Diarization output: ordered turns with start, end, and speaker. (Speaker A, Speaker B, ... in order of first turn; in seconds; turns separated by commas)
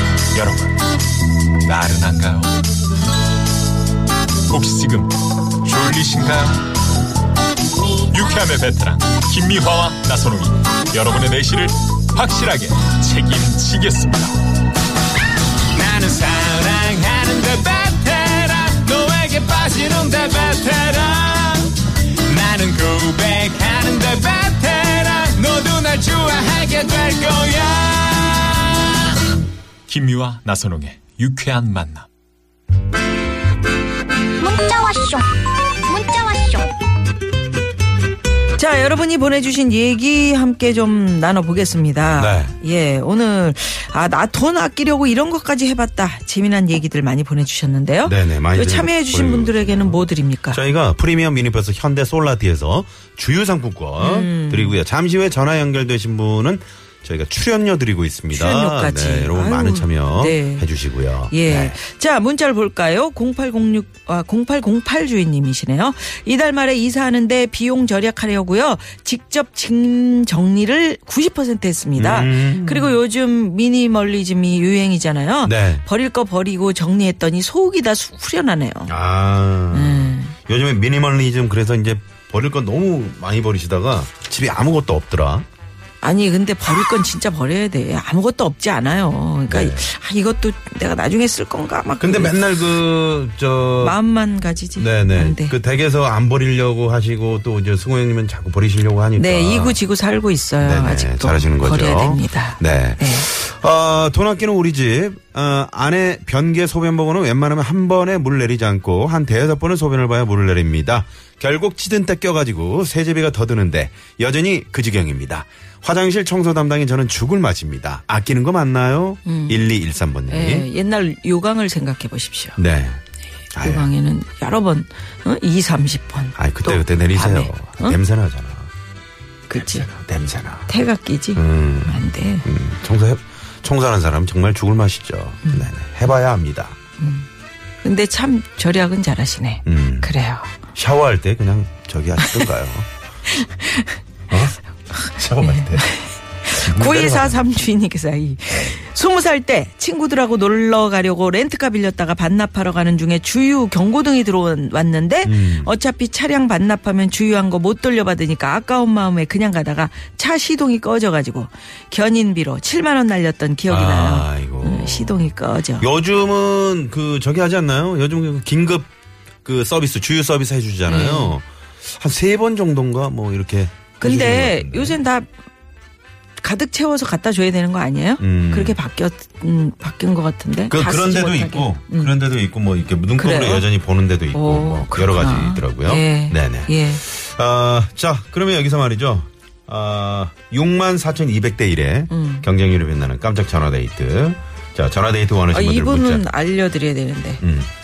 Speaker A: 0.3-0.7, Speaker A: 1.6-2.5, Speaker A: 4.5-6.7, Speaker B: 7.8-8.1, Speaker A: 8.0-14.4, Speaker A: 15.7-28.9, Speaker A: 29.9-32.1, Speaker B: 34.4-35.3, Speaker B: 35.8-36.7, Speaker C: 38.5-50.6, Speaker D: 42.1-42.5, Speaker D: 48.0-61.8, Speaker C: 54.0-54.8, Speaker C: 58.3-60.7, Speaker C: 61.3-78.9, Speaker D: 72.0-73.0, Speaker D: 75.4-75.8, Speaker D: 78.9-85.4, Speaker C: 79.7-80.3, Speaker C: 86.0-92.7, Speaker D: 89.5-89.9, Speaker D: 92.0-94.0, Speaker C: 93.8-95.5, Speaker D: 94.8-99.8, Speaker C: 99.2-103.3, Speaker D: 100.6-120.7, Speaker C: 119.2-119.7, Speaker C: 120.3-122.6, Speaker D: 122.6-123.0, Speaker D: 123.5-123.9, Speaker C: 123.5-128.0, Speaker D: 126.4-128.7, Speaker C: 129.5-129.9, Speaker D: 129.6-130.7, Speaker C: 130.7-132.5, Speaker D: 131.3-136.8, Speaker C: 135.4-135.7, Speaker C: 137.0-137.3, Speaker C: 137.8-140.5, Speaker D: 139.7-140.1, Speaker D: 140.7-142.9, Speaker C: 142.2-142.5, Speaker C: 143.3-144.0, Speaker D: 144.3-145.9, Speaker C: 145.4-165.9, Speaker D: 146.5-147.5, Speaker D: 148.5-148.8, Speaker D: 155.2-155.7, Speaker D: 163.7-165.3, Speaker D: 165.8-168.9, Speaker D: 169.4-175.0, Speaker C: 170.8-171.4, Speaker C: 174.0-175.3, Speaker C: 176.4-182.2, Speaker D: 178.2-178.8, Speaker D: 180.7-196.2, Speaker C: 183.2-183.7, Speaker C: 184.3-187.0, Speaker C: 192.1-192.5, Speaker C: 195.5-197.4, Speaker D: 197.4-197.7